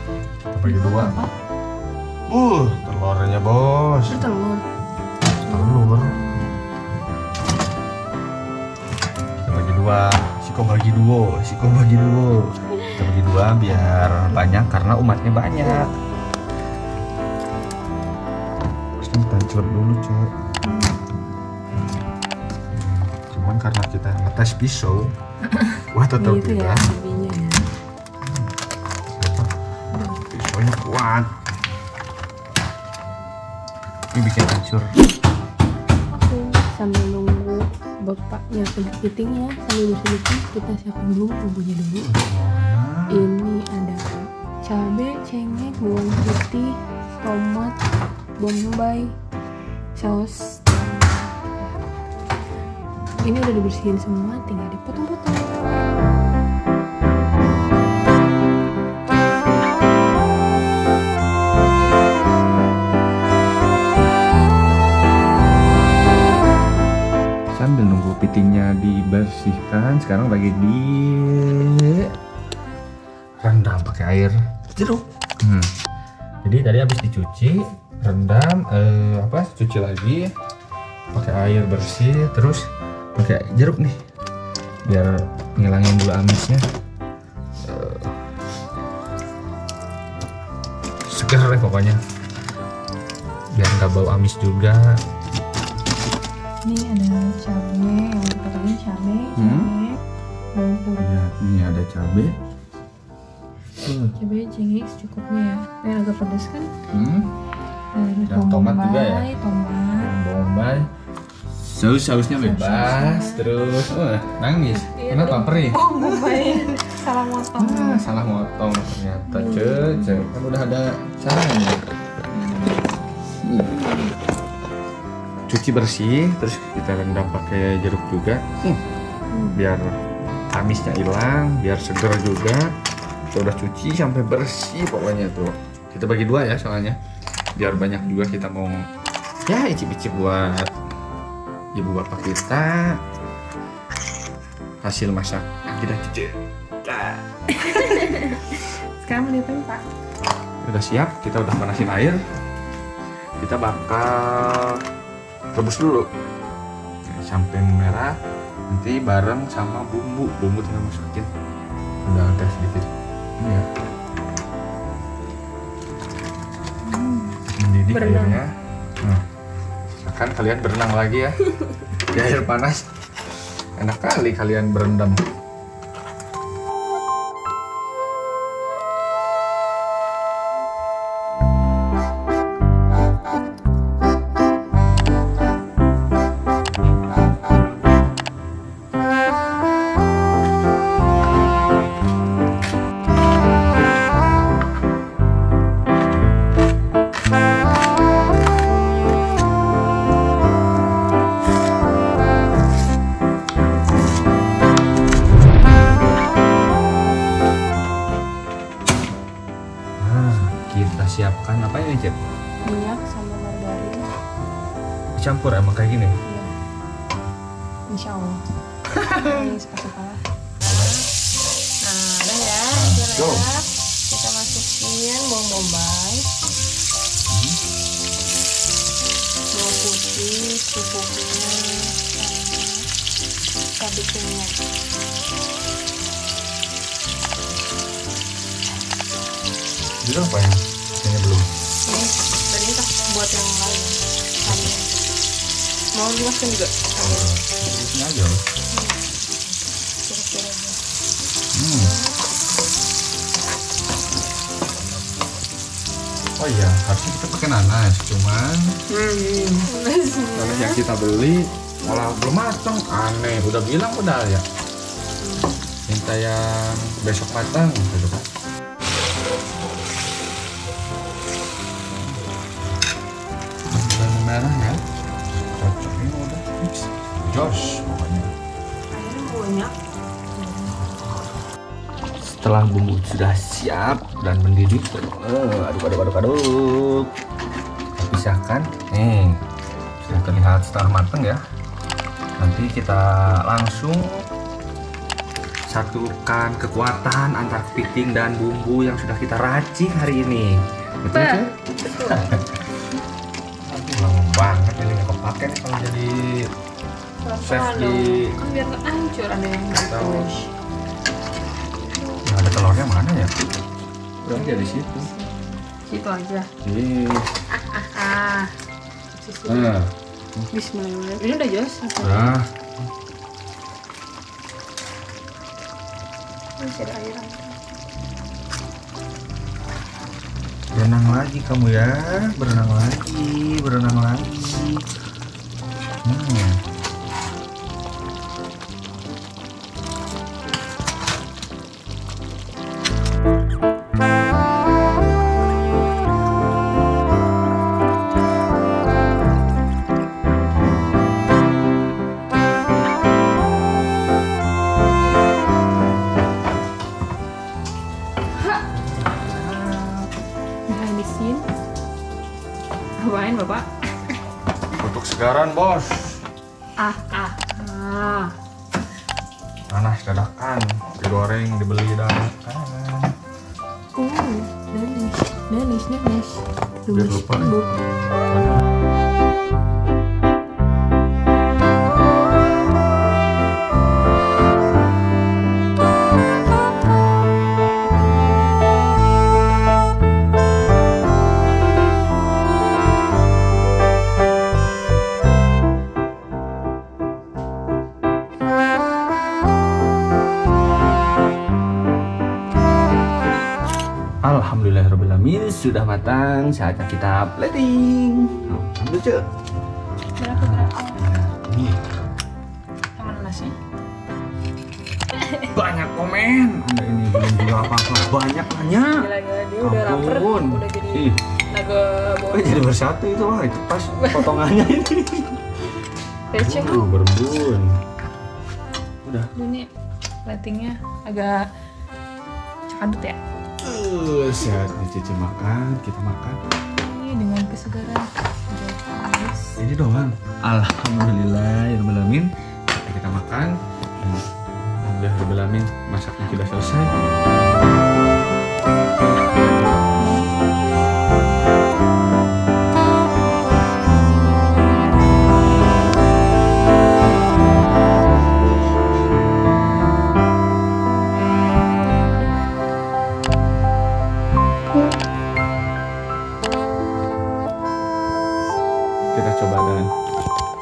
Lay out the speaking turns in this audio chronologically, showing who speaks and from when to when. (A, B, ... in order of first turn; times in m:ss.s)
0:00.5-0:01.1 A
0:00.6-0:01.3 B
0:02.3-0:04.2 A
0:04.1-0:04.6 B
0:05.4-0:06.6 B
0:05.4-0:06.1 A
0:09.4-0:15.9 A
0:13.8-0:14.4 B
0:19.0-0:20.3 A
0:20.6-0:21.0 B
0:22.7-0:25.1 A
0:25.9-0:26.8 A
0:26.2-0:27.7 B
0:29.2-0:29.5 A
0:29.9-0:30.2 B
0:30.2-0:31.4 A
0:34.1-0:35.0 A
0:36.1-0:42.2 B
0:42.1-0:43.2 A
0:43.1-0:47.8 B
0:48.4-0:49.1 B
0:50.0-0:51.8 B
0:53.2-0:55.6 B
1:07.5-1:12.1 A
1:13.4-1:15.7 A
1:16.4-1:20.3 A
1:21.1-1:22.6 A
1:23.2-1:24.0 A
1:24.9-1:26.6 A
1:27.6-1:28.2 A
1:31.1-1:32.0 A
1:33.5-1:35.0 A
1:36.6-1:40.0 B
1:39.4-1:39.7 A
1:40.5-1:41.2 B
1:41.0-1:42.4 A
1:43.8-1:44.1 A
1:44.2-1:46.7 B
1:46.9-1:47.3 A
1:47.9-1:50.2 B
1:48.2-1:49.3 A
1:49.9-1:50.9 A
1:51.5-1:56.8 A
1:52.3-1:53.7 B
1:54.7-1:58.1 B
1:57.5-2:01.8 A
1:59.3-2:00.3 B
2:02.3-2:03.0 B
2:03.4-2:03.8 A
2:03.6-2:04.1 B
2:05.5-2:08.8 A
2:09.3-2:09.6 B
2:09.5-2:09.9 A
2:10.5-2:12.7 A
2:13.3-2:17.0 A
2:17.6-2:18.8 A
2:19.5-2:20.7 A
2:21.7-2:23.0 A
2:24.8-2:27.2 A
2:27.5-2:29.8 B
2:30.6-2:32.2 A
2:33.4-2:34.8 A
2:35.5-2:36.1 A
2:37.0-2:38.1 A
2:38.7-2:41.3 A
2:42.0-2:43.7 A
2:46.8-2:48.4 B
2:47.5-2:48.5 A
2:49.9-2:52.9 A
2:53.8-2:55.2 A
3:30.0-3:32.2 A
3:32.6-3:34.1 B
3:35.2-3:36.2 A
3:36.2-3:36.5 B
3:37.9-3:38.4 B
3:39.0-3:41.0 B
3:39.0-3:39.4 A
3:40.6-3:41.0 A
3:41.8-3:46.3 B
3:42.7-3:43.5 A
3:47.3-3:47.6 A
3:49.5-3:52.9 B
3:53.8-3:54.6 B
4:00.0-4:01.5 A
4:01.8-4:05.0 B
4:04.4-4:04.7 A
4:05.9-4:07.3 B
4:07.0-4:08.4 A
4:08.7-4:10.8 B
4:11.5-4:11.9 A
4:11.8-4:12.2 B
4:16.4-4:18.8 A
4:18.9-4:20.8 B
4:20.3-4:24.4 A
4:25.2-4:25.5 B
4:25.9-4:28.3 A
4:33.7-4:34.8 A
4:35.6-4:38.3 A
4:38.9-4:39.7 B
4:40.4-4:40.8 B
4:42.2-4:47.1 A
4:48.0-4:49.4 A
4:50.0-4:51.4 A
4:52.4-4:54.2 A
4:55.7-5:01.5 A
5:01.1-5:02.4 B
5:02.0-5:02.6 A
5:03.6-5:06.4 A
5:07.2-5:10.5 B
5:07.4-5:08.4 A
5:09.7-5:10.3 A
5:12.2-5:13.3 A
5:14.2-5:15.1 A
5:14.3-5:16.5 B
5:16.6-5:17.3 A
5:17.5-5:18.5 B
5:19.1-5:19.8 B
5:19.4-5:20.5 A
5:20.5-5:22.4 B
5:22.0-5:22.8 A
5:26.6-5:27.6 B
5:30.7-5:34.8 A
5:36.0-5:36.6 A
5:58.8-6:00.1 A
6:00.7-6:01.4 B
6:03.0-6:03.7 B
6:04.8-6:06.2 A
6:06.8-6:08.3 B
6:09.7-6:13.1 A
6:14.0-6:17.8 B
6:16.9-6:17.6 A
6:18.3-6:18.6 A
6:44.2-6:49.2 A
6:50.2-6:51.1 B
6:50.3-6:51.8 A
6:53.0-6:53.6 B
6:55.1-6:55.5 B
6:55.4-6:59.1 A
6:58.9-7:02.6 B
6:59.6-7:01.2 A
7:02.3-7:05.5 A
7:03.9-7:04.5 B
7:06.3-7:07.0 B
7:06.3-7:07.8 A
7:09.0-7:09.3 A
7:09.3-7:09.7 B
7:10.2-7:11.5 B
7:12.7-7:13.2 B
7:13.6-7:16.4 A
7:16.8-7:19.6 B
7:19.6-7:26.9 A
7:29.8-7:30.3 B
7:49.1-7:49.9 A